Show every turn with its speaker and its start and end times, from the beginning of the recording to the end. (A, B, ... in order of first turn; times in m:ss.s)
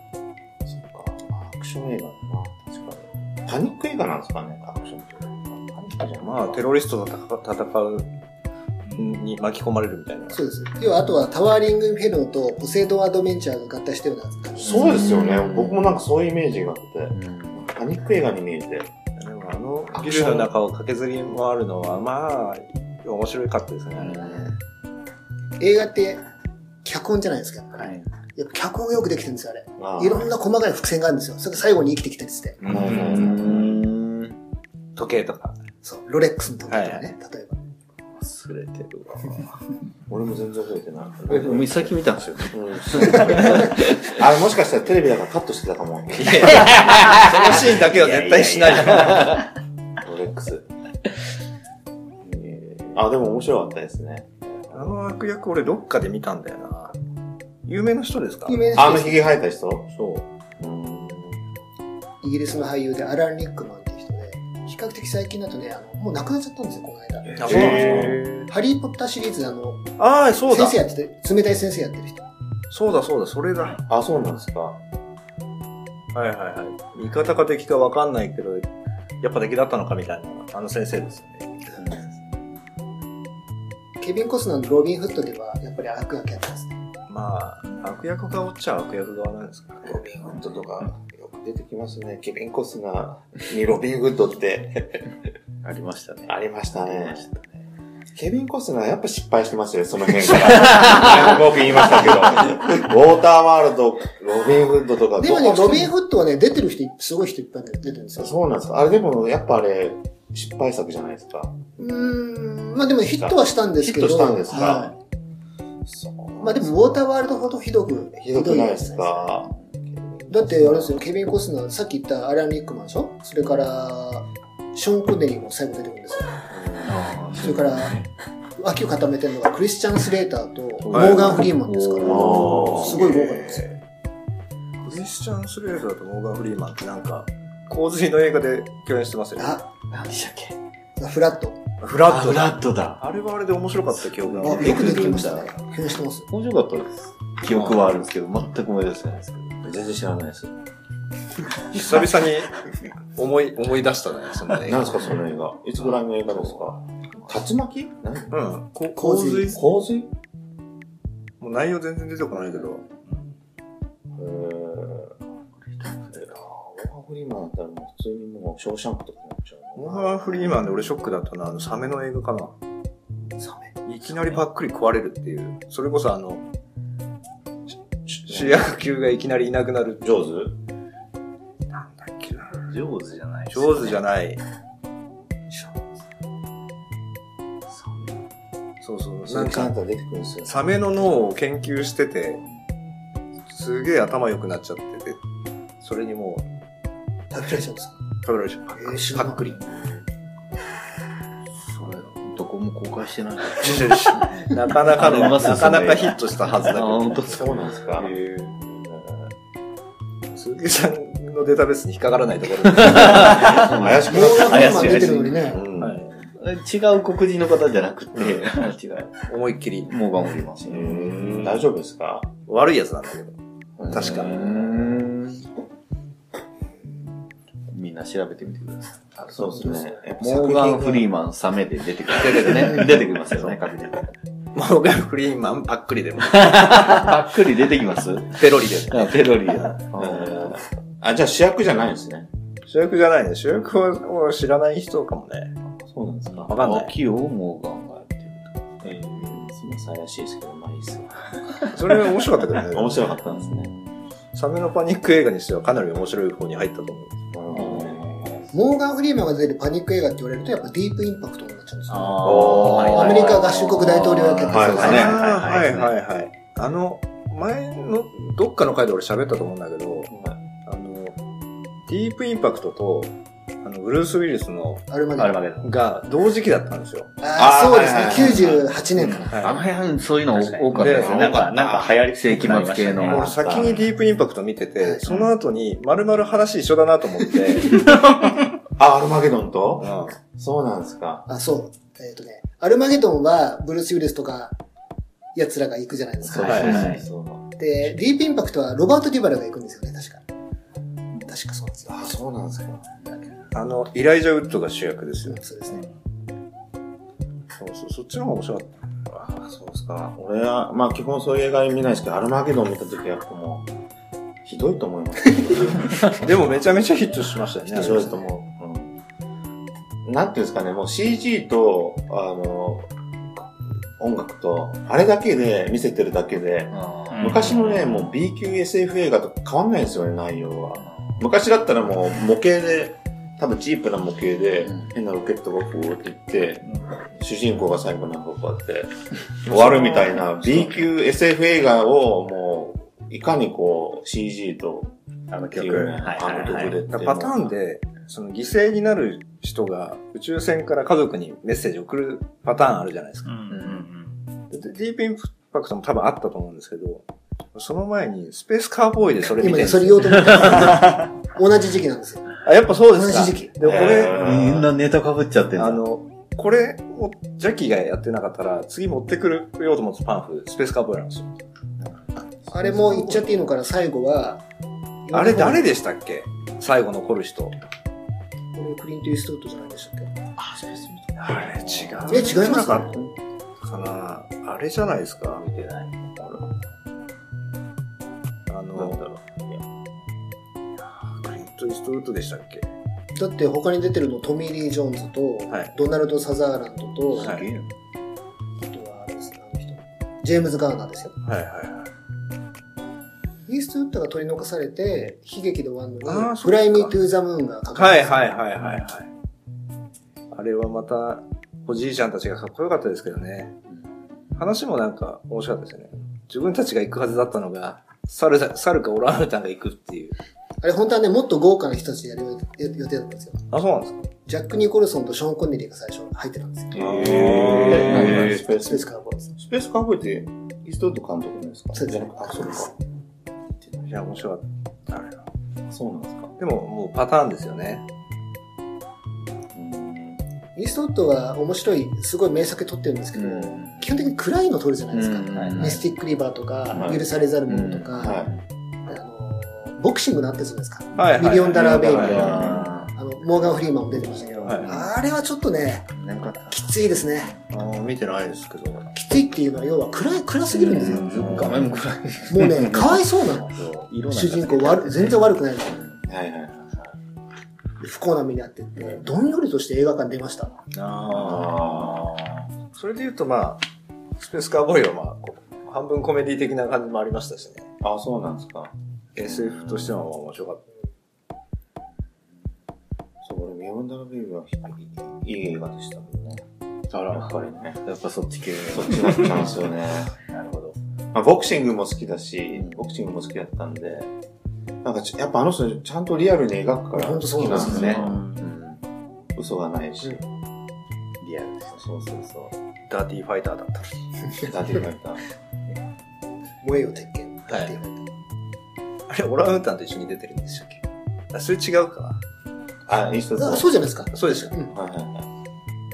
0:00.6-0:06.6 A
0:06.2-0:08.1 B
0:08.9-0:10.4 B
0:10.3-0:15.0 C
0:14.6-0:18.9 A
0:14.7-0:15.9 D
0:17.1-0:17.6 D
0:19.2-0:24.5 B
0:19.9-0:20.5 A
0:24.0-0:24.5 D
0:25.6-0:26.2 C
0:26.8-0:32.6 C
0:29.8-0:30.3 A
0:32.6-0:33.8 A
0:32.6-0:34.4 D
0:35.0-0:35.6 B
0:35.8-0:37.6 C
0:36.7-0:37.1 B
0:38.1-0:39.7 D
0:40.1-0:47.7 A
0:41.3-0:44.2 D
0:46.2-0:49.4 B
0:46.4-0:49.5 D
0:50.0-0:50.6 A
0:52.2-0:52.9 D
0:52.9-0:55.0 A
0:54.7-0:57.0 B
0:57.6-0:58.8 B
0:58.5-0:59.4 C
0:58.7-0:59.9 A
1:00.6-1:01.4 A
1:02.2-1:09.8 C
1:07.3-1:08.2 A
1:07.4-1:08.5 B
1:10.0-1:10.8 B
1:10.5-1:12.2 C
1:12.7-1:13.8 B
1:13.9-1:14.8 A
1:16.1-1:18.7 B
1:19.2-1:21.5 B
1:24.0-1:26.7 C
1:27.1-1:30.2 B
1:30.1-1:35.1 A
1:35.6-1:37.6 D
1:36.3-1:37.2 A
1:38.1-1:45.9 A
1:45.2-1:48.4 C
1:48.2-1:51.6 A
1:51.8-1:54.9 C
1:53.1-1:54.9 A
1:55.8-1:57.1 A
1:56.4-1:59.4 C
1:58.2-2:01.0 A
2:00.3-2:06.4 C
2:06.5-2:07.2 A
2:06.8-2:08.0 D
2:07.4-2:08.0 C
2:08.6-2:13.7 C
2:10.8-2:13.6 D
2:10.9-2:11.4 B
2:12.0-2:13.0 A
2:12.8-2:13.7 B
2:14.8-2:19.6 B
2:19.4-2:19.7 C
2:19.9-2:20.6 D
2:21.0-2:21.6 C
2:21.8-2:25.2 B
2:22.0-2:23.0 D
2:24.1-2:25.5 D
2:24.4-2:26.3 C
2:26.3-2:29.6 D
2:27.5-2:27.8 B
2:29.6-2:30.5 A
2:31.7-2:32.6 B
2:33.2-2:35.1 B
2:34.6-2:38.4 A
2:38.3-2:39.6 B
2:39.0-2:39.6 C
2:39.5-2:40.1 A
2:41.4-2:42.8 B
2:44.2-2:45.2 A
2:45.9-2:46.3 D
2:46.1-2:50.9 A
2:49.8-2:52.5 B
2:53.4-2:53.7 C
2:53.8-2:56.4 B
2:58.0-3:00.1 B
2:58.3-2:58.6 A
3:00.0-3:00.6 A
3:01.7-3:02.7 B
3:02.7-3:04.0 D
3:03.5-3:04.4 B
3:08.8-3:09.7 B
3:09.2-3:10.7 A
3:10.4-3:12.4 B
3:13.5-3:15.2 B
3:15.8-3:16.4 B
3:17.3-3:18.0 C
3:18.2-3:19.6 B
3:18.8-3:19.5 C
3:21.8-3:28.6 D
3:23.6-3:27.5 B
3:27.2-3:29.3 A
3:30.3-3:33.9 B
3:32.6-3:35.5 D
3:33.0-3:36.0 A
3:34.1-3:35.6 C
3:35.8-3:36.2 B
3:36.3-3:39.2 D
3:39.2-3:39.9 B
3:39.9-3:41.6 D
3:40.6-3:42.3 A
3:42.5-3:43.4 B
3:43.8-3:45.1 A
3:43.9-3:45.4 D
3:43.9-3:44.5 B
3:47.7-3:54.1 D
3:49.2-3:51.1 A
3:52.2-3:53.0 B
3:53.0-3:53.5 A
3:54.5-3:57.0 B
3:56.3-4:00.6 D
3:58.3-3:59.7 B
3:59.9-4:02.3 A
4:02.7-4:05.5 B
4:05.7-4:06.6 A
4:06.3-4:09.0 D
4:06.5-4:06.9 B
4:08.8-4:11.3 A
4:11.7-4:12.9 B
4:12.7-4:13.7 A
4:13.2-4:14.0 D
4:14.3-4:17.2 B
4:17.3-4:18.4 A
4:17.5-4:18.4 D
4:18.5-4:25.1 C
4:21.9-4:25.9 D
4:22.2-4:23.6 A
4:24.4-4:25.3 A
4:24.7-4:30.1 B
4:30.1-4:30.4 A
4:30.6-4:31.2 B
4:31.9-4:34.8 B
4:34.9-4:35.4 C
4:35.2-4:35.7 D
4:35.6-4:37.1 B
4:37.2-4:39.3 C
4:37.3-4:38.7 A
4:39.0-4:43.3 D
4:39.3-4:39.6 B
4:40.4-4:41.5 B
4:40.7-4:43.9 A
4:42.9-4:47.8 B
4:44.8-4:45.1 C
4:48.8-4:51.2 A
4:49.8-4:50.2 B
4:51.3-4:54.6 C
4:55.3-4:56.9 C
4:56.2-4:57.4 A
4:56.3-4:57.0 D
4:56.4-4:57.0 B
4:57.6-5:00.2 C
5:01.3-5:02.1 C
5:01.9-5:02.9 A
5:03.5-5:05.4 B
5:05.2-5:05.8 C
5:07.6-5:08.8 B
5:09.1-5:13.7 A
5:14.4-5:16.4 A
5:16.1-5:18.2 B
5:17.7-5:19.0 A
5:17.7-5:18.3 C
5:20.0-5:47.5 A
5:26.7-5:28.1 D
5:30.8-5:31.1 D
5:39.5-5:40.3 B
5:45.3-5:46.8 D
5:46.9-5:53.8 B
5:53.3-5:54.2 D
5:54.5-6:00.9 B
5:59.4-6:02.2 C
6:02.4-6:04.2 B
6:02.9-6:03.5 C
6:03.6-6:04.7 A
6:04.1-6:05.8 D
6:05.6-6:11.3 B
6:12.5-6:14.4 C
6:15.0-6:15.7 C
6:15.1-6:17.5 B
6:18.5-6:20.1 C
6:20.4-6:21.4 A
6:20.6-6:22.4 D
6:21.2-6:23.1 B
6:22.1-6:23.0 C
6:23.6-6:25.4 B
6:25.4-6:26.0 D
6:26.1-6:26.5 A
6:28.5-6:29.0 B
6:28.7-6:29.6 A
6:30.8-6:32.7 B
6:33.1-6:37.3 C
6:37.1-6:37.7 D
6:37.2-6:37.5 B
6:38.6-6:41.1 C
6:41.2-6:41.9 B
6:43.5-6:48.4 C
6:46.0-6:47.0 B
6:47.7-6:49.1 B
6:50.3-6:53.6 B
6:54.3-7:00.2 B
7:00.6-7:03.4 C
7:03.5-7:04.1 B
7:04.2-7:06.8 C
7:06.7-7:12.7 A
7:06.8-7:08.3 D
7:06.8-7:08.3 B
7:08.0-7:09.3 C
7:11.7-7:12.7 C
7:13.6-7:14.0 A
7:13.9-7:15.2 B
7:15.6-7:16.3 A
7:16.4-7:17.8 B
7:19.5-7:20.2 A
7:20.6-7:28.3 C
7:23.1-7:23.9 D
7:24.9-7:25.8 D
7:26.7-7:27.0 A
7:27.5-7:28.4 D
7:27.9-7:28.4 A
7:28.9-7:35.9 C
7:31.0-7:32.7 B
7:31.6-7:32.9 D
7:32.1-7:32.7 A
7:33.9-7:34.9 D
7:34.4-7:34.8 B
7:35.9-7:36.6 D
7:36.5-7:37.3 C
7:37.5-7:38.9 B
7:38.9-7:41.5 C
7:40.5-7:46.0 D
7:40.8-7:41.8 B
7:42.3-7:43.6 C
7:44.1-7:45.8 C
7:46.0-7:46.9 A
7:47.8-7:50.5 C
7:50.7-7:51.6 B
7:51.1-7:52.1 A
7:51.2-7:52.4 D
7:52.7-7:53.6 B
7:54.2-7:57.7 B
7:57.8-8:00.0 A
7:59.1-8:00.6 B
8:03.2-8:06.4 A
8:06.9-8:10.8 D
8:07.1-8:07.8 A
8:08.7-8:10.1 A
8:11.1-8:14.1 A
8:14.8-8:18.8 A
8:16.9-8:18.0 C
8:17.4-8:18.5 D
8:19.3-8:20.2 A
8:21.2-8:21.9 D
8:21.8-8:22.5 A
8:22.9-8:24.0 B
8:24.4-8:25.2 A
8:26.6-8:28.0 C
8:27.5-8:27.7 B
8:29.1-8:30.8 B
8:31.3-8:32.2 B
8:32.9-8:33.7 A
8:33.4-8:34.7 C
8:34.1-8:34.5 B
8:34.7-8:35.3 A